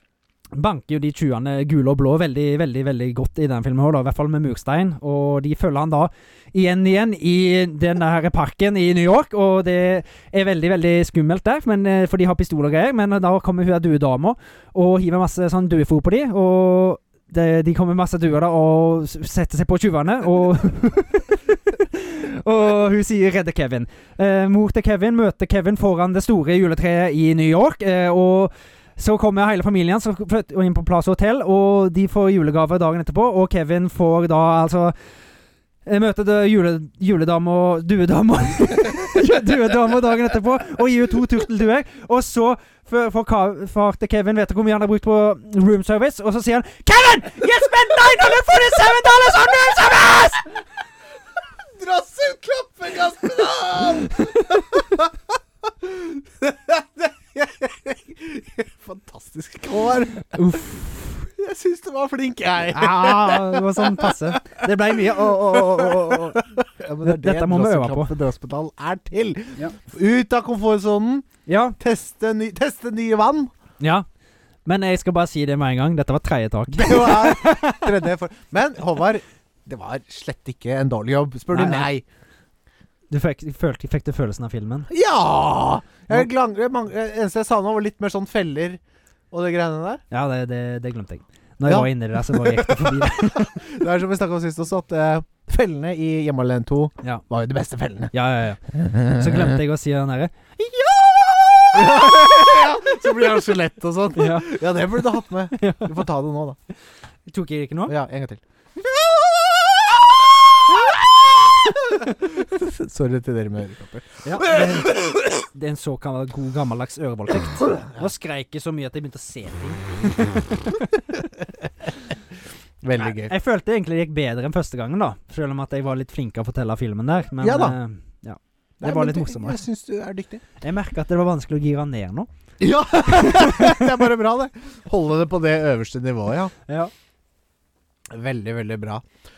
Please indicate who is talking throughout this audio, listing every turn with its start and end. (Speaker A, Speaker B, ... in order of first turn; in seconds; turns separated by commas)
Speaker A: 0.5-34.9, Speaker A: 35.8-50.6, Speaker B: 51.6-55.1, Speaker A: 54.2-54.6, Speaker B: 55.6-60.5, Speaker A: 60.3-61.1, Speaker B: 61.2-71.3, Speaker A: 62.7-66.5, Speaker A: 67.0-68.1, Speaker A: 71.5-71.8, Speaker B: 71.8-73.5, Speaker A: 73.8-74.0, Speaker A: 74.6-77.9, Speaker B: 76.7-82.0, Speaker A: 81.5-81.9, Speaker A: 83.1-84.9, Speaker B: 84.9-90.0, Speaker A: 90.1-93.6, Speaker B: 91.6-98.1, Speaker A: 98.1-102.9, Speaker B: 98.7-99.6, Speaker B: 101.7-106.6, Speaker A: 104.1-104.5, Speaker A: 105.5-106.0, Speaker A: 107.3-107.9, Speaker B: 107.9-108.4, Speaker B: 109.1-109.8, Speaker B: 110.7-115.2, Speaker A: 114.2-121.0, Speaker B: 122.8-123.3, Speaker A: 123.0-129.6, Speaker B: 127.4-127.8, Speaker B: 128.8-130.4, Speaker A: 130.6-132.3, Speaker B: 132.6-136.5, Speaker A: 133.1-133.9, Speaker A: 136.7-136.9, Speaker B: 138.1-139.0